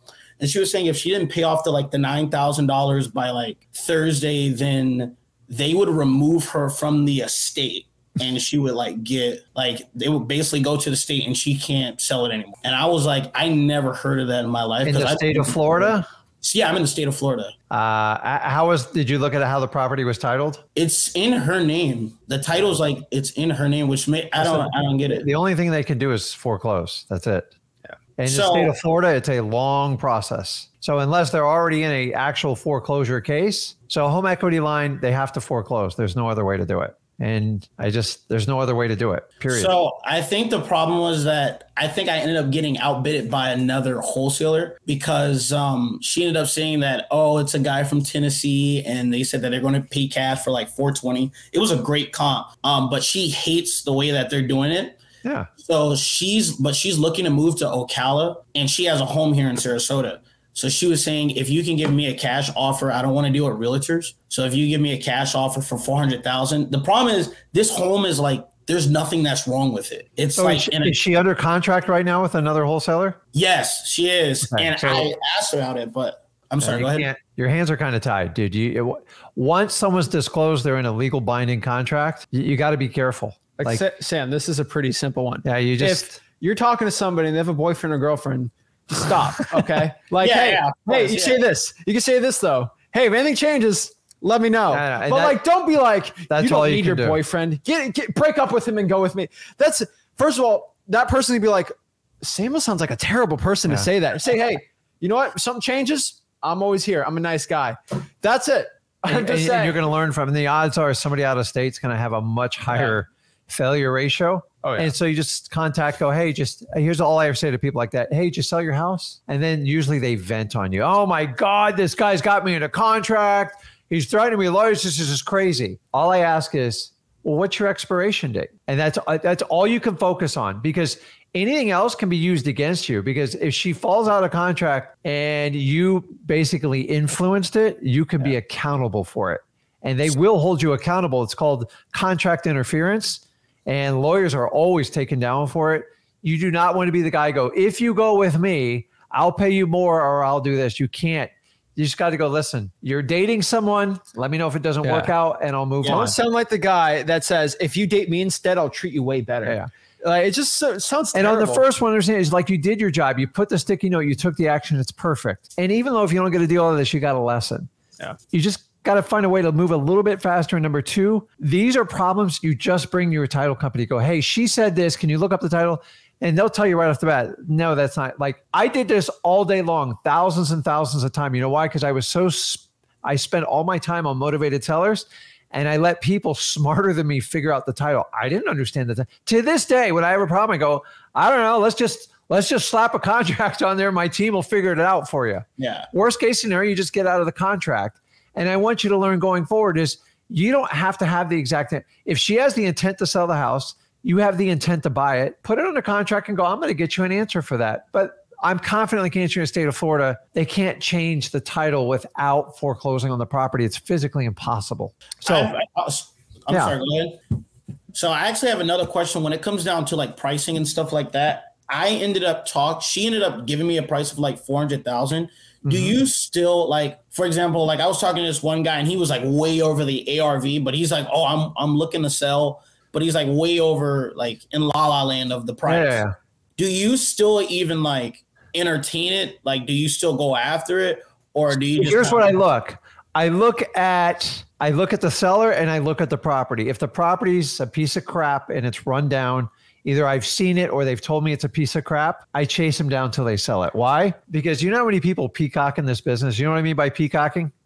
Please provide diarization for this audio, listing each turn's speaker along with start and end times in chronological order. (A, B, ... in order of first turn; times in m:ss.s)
0:00.4-0:17.5 A
0:14.8-0:16.0 B
0:17.7-0:20.6 B
0:20.7-0:25.3 A
0:24.4-0:27.5 B
0:28.2-0:39.7 B
0:28.3-0:28.7 A
0:39.5-0:55.0 A
0:55.6-1:11.0 A
1:10.4-1:13.2 B
1:13.3-1:17.1 A
1:14.5-1:15.1 B
1:16.6-1:23.8 B
1:23.6-1:49.8 C
1:25.4-1:26.2 B
1:30.2-1:31.4 A
1:34.7-1:35.4 B
1:36.3-1:37.2 B
1:49.1-2:36.2 B
1:52.7-1:53.0 C
1:54.6-1:54.9 C
2:34.8-2:35.2 C
2:35.8-2:41.6 C
2:41.1-2:47.7 B
2:48.3-3:35.5 B
3:15.6-3:15.9 A
3:35.2-3:37.2 A
3:36.5-3:36.8 B
3:37.9-3:56.0 A
3:45.6-3:46.0 B
3:55.6-3:56.1 B
3:56.6-4:02.4 A
4:01.8-4:17.5 B